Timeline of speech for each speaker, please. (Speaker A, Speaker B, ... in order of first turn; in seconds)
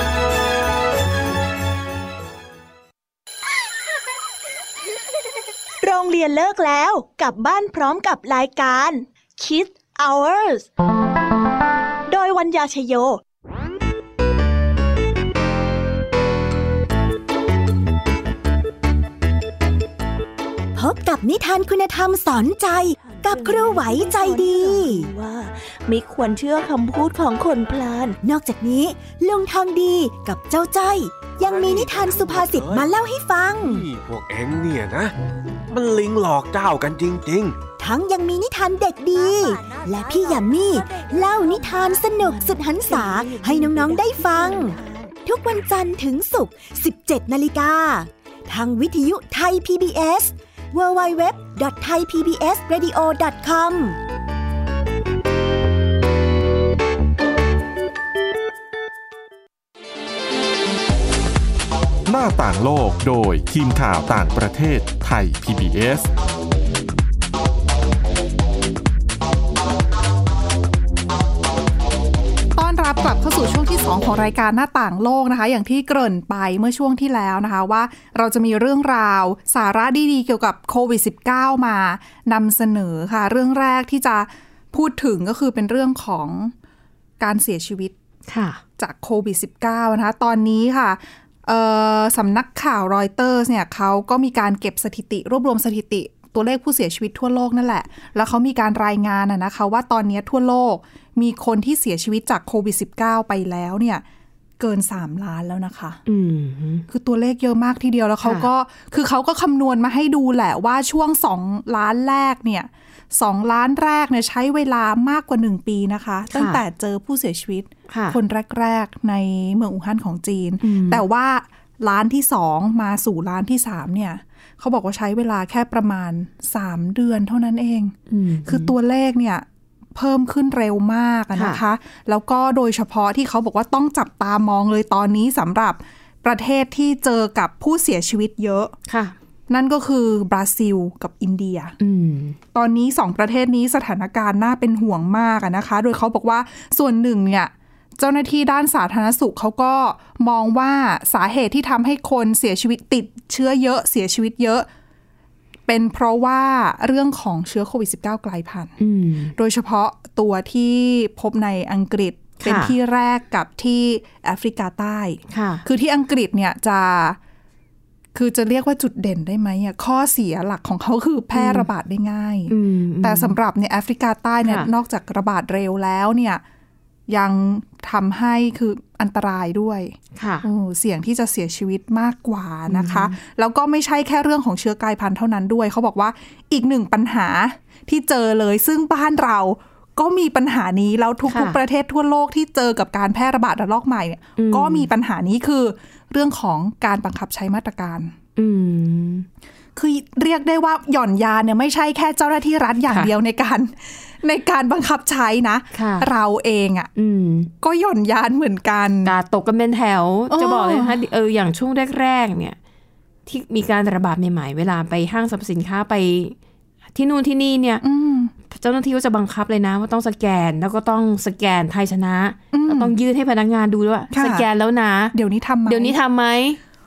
Speaker A: 5.8-10.7, 12.1-13.2, 23.0-28.2, 39.1-45.2
Speaker B: 20.8-25.1, 28.2-33.9, 37.8-54.0
Speaker C: 31.3-32.9, 33.6-35.1, 35.7-37.6
Speaker D: 62.0-66.1
Speaker E: 72.5-86.5, 87.2-87.9, 88.8-104.0, 104.6-106.0, 106.9-138.8, 139.5-141.8, 142.5-154.7, 155.7-158.7, 159.3-167.2, 168.1-176.4, 177.1-198.1, 199.8-206.9, 207.6-209.1, 210.3-211.0, 217.8-218.3, 222.5-222.9, 224.1-224.4, 225.1-226.0
Speaker F: 88.3-88.6, 106.1-106.9, 108.2-108.5, 116.3-116.6, 117.9-118.2, 120.6-121.0, 128.1-128.7, 131.3-131.6, 138.9-139.1, 141.8-142.4, 158.8-159.3, 162.4-162.8, 165.3-165.6, 171.3-171.7, 172.5-173.4, 180.2-180.4, 182.7-183.2, 191.3-191.6, 194.4-194.9, 198.4-199.2, 205.7-206.1, 206.9-207.5, 209.0-212.6, 213.2-216.4, 216.9-217.8, 218.5-225.1, 225.7-226.6